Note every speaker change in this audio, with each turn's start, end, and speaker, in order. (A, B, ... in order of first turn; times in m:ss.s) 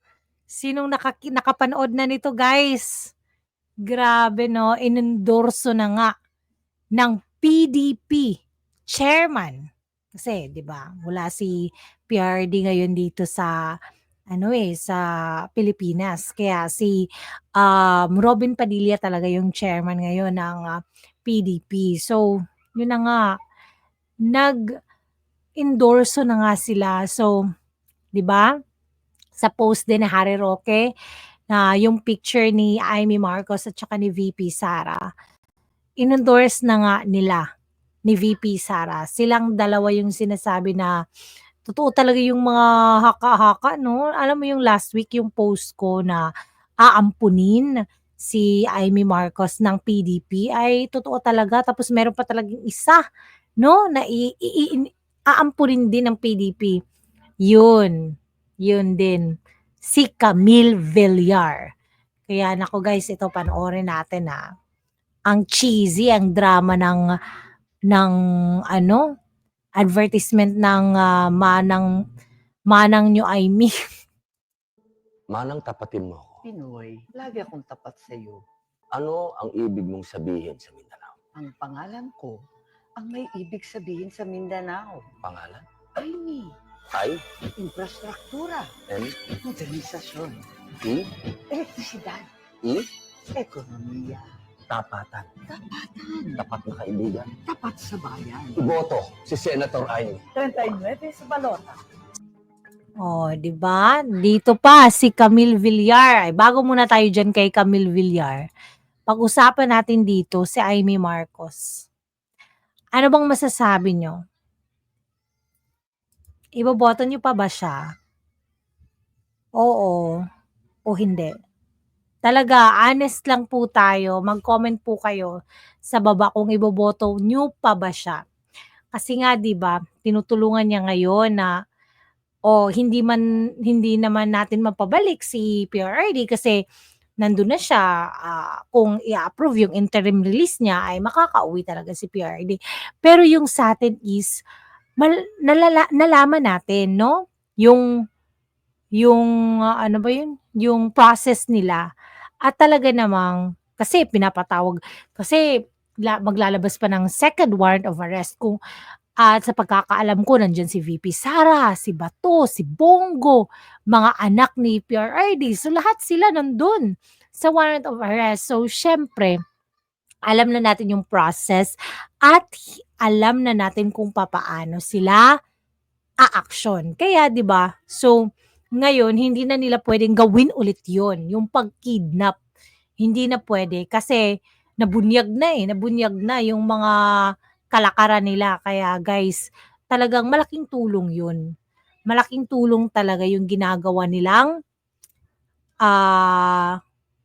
0:00.5-0:02.9 A
0:03.9-0:06.1 A
0:07.0-0:08.3 A
0:08.9-0:09.6 A
0:10.2-0:13.5 A
0:14.3-0:15.0 A
0:15.6-0:17.0 A
0:17.6-0:20.7 A
0:21.2-0:22.2 A
0:22.8-0:23.2 A
0:24.3-0:24.6 A
0:25.6-0:27.3 A
0:28.2-0:28.5 A
0:29.4-0:30.8 A
0:31.5-0:35.0 A
0:36.0-0:37.4 A
0:38.1-0:40.9 A
0:41.7-0:46.2 A
0:46.8-0:47.7 A
0:48.2-0:53.0 A
0:53.6-0:56.8 A
0:57.5-0:58.0 A
0:58.7-0:59.3 A
0:59.9-1:01.7 A
1:02.3-1:04.4 A
1:05.3-1:07.0 A
1:07.9-1:08.2 A
1:08.7-1:09.0 A
1:09.8-1:11.9 A
1:12.7-1:13.8 A
1:15.3-1:16.4 B
1:16.4-1:18.4 C
1:18.9-1:21.2 B
1:21.4-1:22.4 C
1:23.0-1:25.1 C
1:25.2-1:25.6 B
1:26.0-1:26.6 C
1:26.9-1:27.2 B
1:27.6-1:28.7 C
1:28.9-1:29.2 B
1:29.4-1:30.4 C
1:30.8-1:31.1 B
1:31.5-1:32.3 C
1:33.4-1:34.3 C
1:34.7-1:35.3 B
1:35.5-1:36.4 C
1:36.4-1:37.3 B
1:37.4-1:38.6 C
1:38.6-1:40.2 B
1:40.4-1:41.8 C
1:43.0-1:48.4 A
1:49.1-1:51.9 A
1:53.0-1:54.2 A
1:56.6-1:57.8 A
1:59.6-2:00.1 A
2:00.9-2:01.3 A
2:02.3-2:05.3 A
2:05.9-2:08.2 A
2:08.9-2:11.5 A
2:12.5-2:16.6 A
2:17.2-2:24.4 A
2:25.0-2:27.8 A
2:29.0-2:31.8 A
2:32.4-2:35.4 A
2:36.0-2:38.6 A
2:39.2-2:49.4 A
2:50.3-2:51.7 A
2:52.2-2:55.3 A
2:56.2-2:58.2 A
2:58.8-3:02.4 A
3:03.0-3:04.2 A
3:04.8-3:06.9 A
3:07.7-3:09.4 A
3:09.9-3:11.4 A
3:12.1-3:14.5 A
3:15.9-3:16.7 A